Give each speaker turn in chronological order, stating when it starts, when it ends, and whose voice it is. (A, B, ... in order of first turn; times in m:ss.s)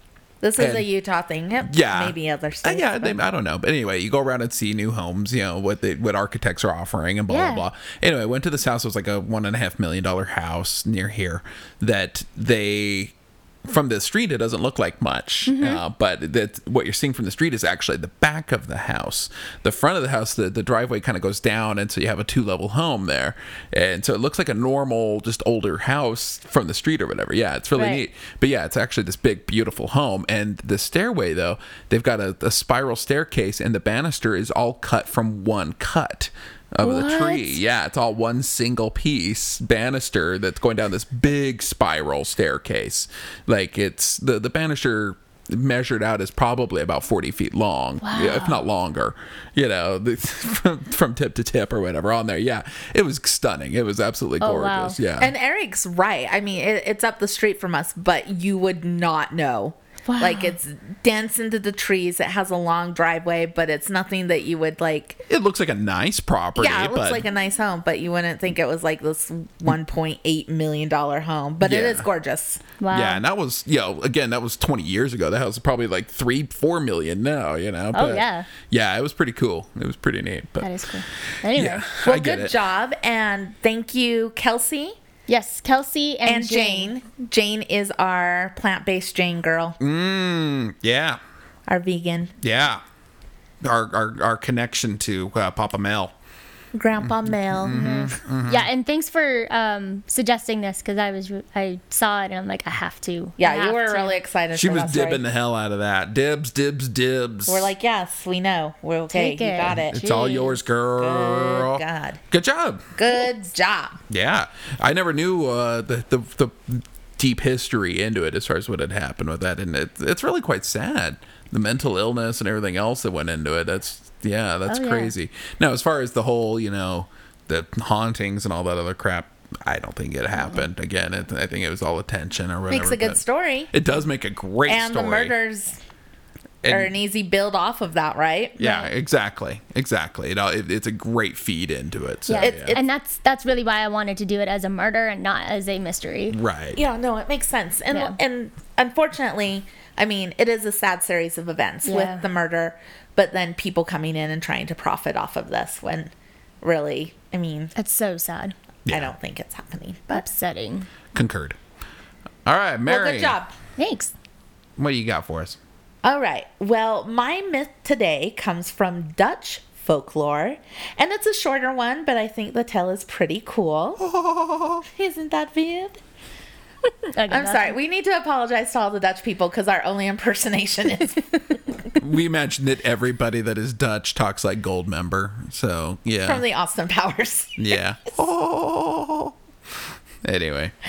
0:00.4-0:03.2 A
0:00.6-0:00.9 B
0:01.6-0:13.1 B
0:07.3-0:07.6 C
0:13.7-0:55.3 B
0:15.5-0:15.8 C
0:27.8-0:28.0 C
0:36.8-0:37.6 C
0:48.0-0:48.6 C
0:54.4-0:55.0 C
0:55.2-1:05.2 A
1:00.1-1:00.6 C
1:05.3-1:07.2 B
1:06.6-1:12.6 A
1:11.6-1:12.1 B
1:12.8-1:13.2 C
1:12.9-1:20.8 B
1:17.9-1:18.5 C
1:20.6-1:21.9 C
1:21.4-1:22.6 B
1:22.0-1:25.0 A
1:25.3-1:26.9 C
1:26.2-1:29.8 A
1:29.8-1:31.2 B
1:31.7-1:32.3 A
1:32.4-1:32.8 B
1:33.6-1:36.1 B
1:36.7-1:38.1 A
1:37.1-1:38.7 B
1:37.7-1:44.2 C
1:43.4-1:45.2 A
1:44.5-1:47.7 B
1:47.5-1:50.1 A
1:49.1-1:50.6 C
1:49.8-1:52.8 B
1:51.0-1:52.2 A
1:53.0-1:54.0 A
1:54.1-2:13.2 B
2:04.7-2:05.1 C
2:10.4-2:10.6 C
2:12.7-2:13.7 A
2:13.7-2:15.3 B
2:14.7-2:15.8 A
2:16.6-2:16.9 B
2:16.7-2:18.8 A
2:18.6-2:18.9 C
2:18.6-2:22.8 B
2:22.3-2:26.4 C
2:22.4-2:22.8 A
2:26.3-2:26.8 B
2:26.8-2:37.7 A
2:27.9-2:28.2 C
2:31.8-2:32.2 C
2:37.8-2:38.6 C
2:38.9-2:40.3 A
2:40.1-2:40.9 C
2:41.1-2:41.6 B
2:42.4-2:43.4 B
2:42.9-2:43.5 A
2:43.8-2:44.1 C
2:44.8-2:45.6 B
2:46.0-2:54.0 A
2:54.0-2:54.8 B
2:54.9-2:56.0 A
2:57.1-2:57.8 C
2:57.3-3:01.4 A
3:01.9-3:06.4 B
3:06.2-3:07.8 A
3:07.6-3:09.3 B
3:10.2-3:10.7 B